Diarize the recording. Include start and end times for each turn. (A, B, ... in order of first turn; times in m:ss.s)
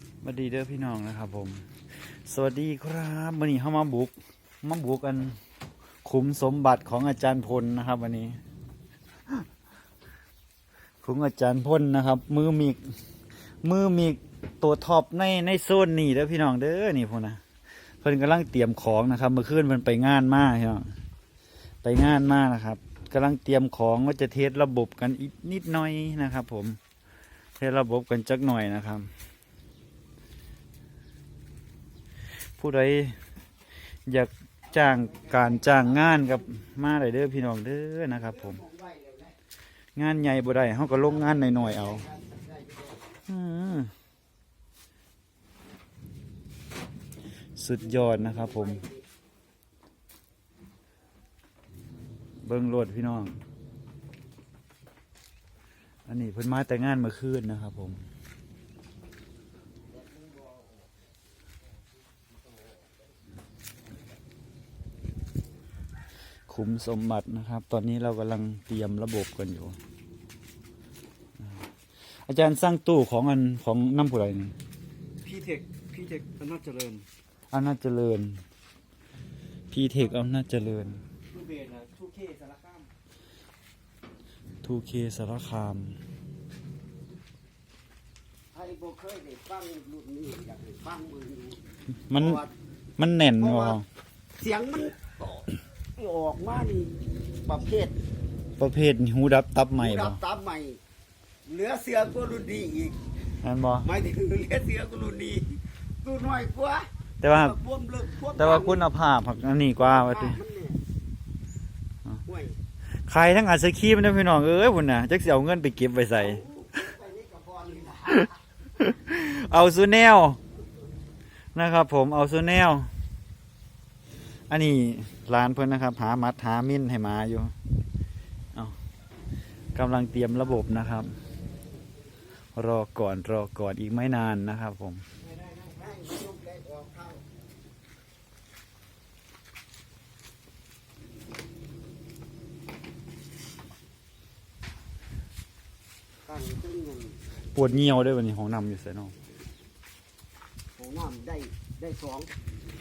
0:00.2-0:01.6 A
0:02.3-0:05.4 A
0:06.0-0:08.4 A
0:11.0-0:12.8 A
0:13.6-0:17.4 A
0:18.0-0:20.9 A
0:21.8-0:26.8 A
0:27.6-0:29.1 A
0:32.6-0:33.2 A
0:34.1-0:38.6 A
0:34.6-0:36.4 B
0:38.1-0:39.3 B
0:40.0-0:42.0 A
0:41.0-0:43.0 B
0:43.3-0:43.9 A
0:47.6-0:48.8 A
0:47.8-0:49.0 B
0:52.4-0:53.4 A
0:56.1-0:58.0 A
0:59.9-1:00.9 B
1:02.3-1:02.8 B
1:06.5-1:09.8 A
1:12.3-1:14.5 A
1:15.2-1:17.0 B
1:17.5-1:18.4 A
1:19.7-1:21.0 A
1:21.3-1:22.9 B
1:24.6-1:26.0 A
1:28.5-1:31.6 B
1:32.1-1:32.4 A
1:32.2-1:32.5 B
1:33.0-1:33.8 A
1:33.4-1:33.8 B
1:34.4-1:38.0 B
1:38.6-1:40.2 A
1:39.8-1:40.8 B
1:41.4-1:43.0 B
1:43.4-1:43.9 A
1:43.8-1:48.8 B
1:47.2-1:47.6 A
1:48.3-1:50.4 A
1:49.8-1:50.8 B
1:52.2-1:52.5 B
1:53.1-1:56.4 A
1:56.2-1:58.4 B
1:58.8-2:00.4 A
2:01.5-2:02.9 A
2:04.5-2:07.5 A
2:09.7-2:11.1 A
2:12.5-2:15.0 A
2:15.2-2:17.2 B
2:26.2-2:27.2 B
2:27.5-2:29.1 A
2:30.8-2:32.3 B